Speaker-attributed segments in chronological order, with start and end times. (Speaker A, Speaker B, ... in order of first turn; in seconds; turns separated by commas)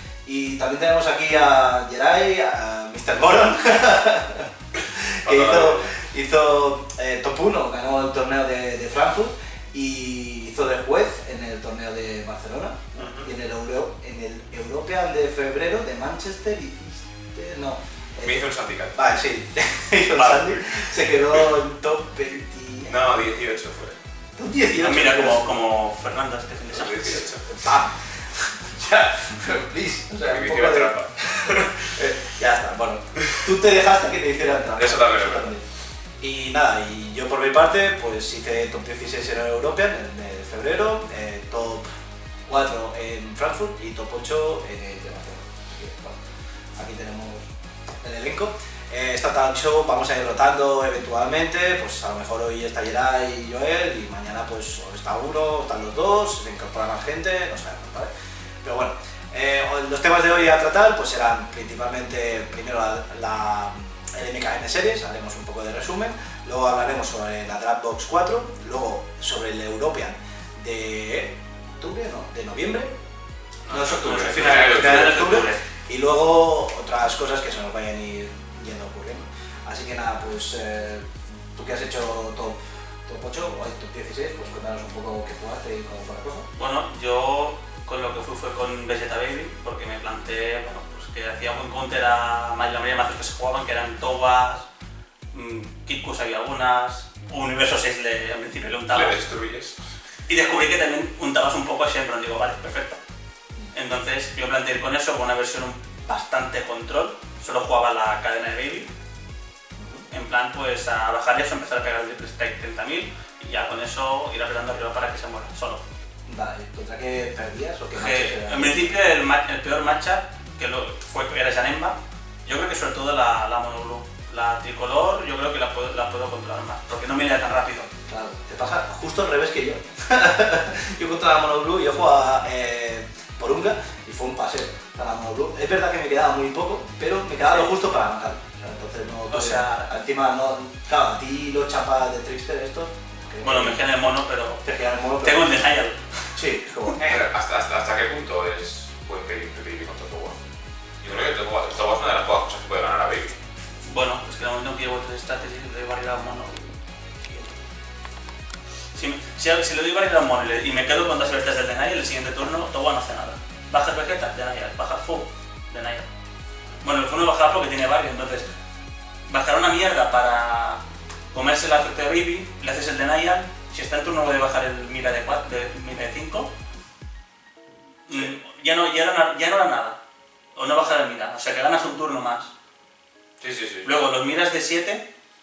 Speaker A: 0.2-23.0, Speaker B: 4.9-6.0, Speaker B: 13.0-13.3, Speaker B: 18.2-19.0, Speaker C: 20.1-20.5, Speaker B: 22.9-24.0, Speaker A: 24.4-25.5, Speaker C: 24.8-27.2, Speaker B: 26.7-27.6, Speaker A: 27.4-35.6, Speaker B: 30.3-31.8, Speaker B: 33.2-33.5, Speaker B: 34.7-35.5, Speaker A: 36.2-41.8, Speaker A: 42.5-46.2, Speaker A: 46.8-47.5, Speaker A: 48.0-58.1, Speaker A: 58.6-72.9, Speaker B: 73.7-75.4, Speaker A: 73.7-86.5, Speaker C: 73.8-75.6, Speaker C: 86.5-94.6, Speaker C: 95.3-99.2, Speaker B: 98.9-99.8, Speaker C: 100.3-103.0, Speaker C: 103.7-108.9, Speaker A: 109.8-110.0, Speaker C: 110.1-115.8, Speaker A: 116.3-118.9, Speaker C: 117.9-127.9, Speaker A: 128.1-143.8, Speaker C: 139.3-139.9, Speaker C: 143.4-144.6, Speaker A: 144.6-145.5, Speaker C: 145.2-146.4, Speaker A: 146.3-147.2, Speaker B: 147.0-150.4, Speaker B: 151.0-153.3, Speaker C: 153.8-157.5, Speaker C: 158.9-166.1, Speaker C: 166.8-168.5, Speaker C: 169.3-170.8, Speaker C: 171.3-176.5, Speaker C: 178.1-180.0, Speaker C: 180.5-182.5, Speaker B: 183.4-183.9, Speaker C: 183.8-185.0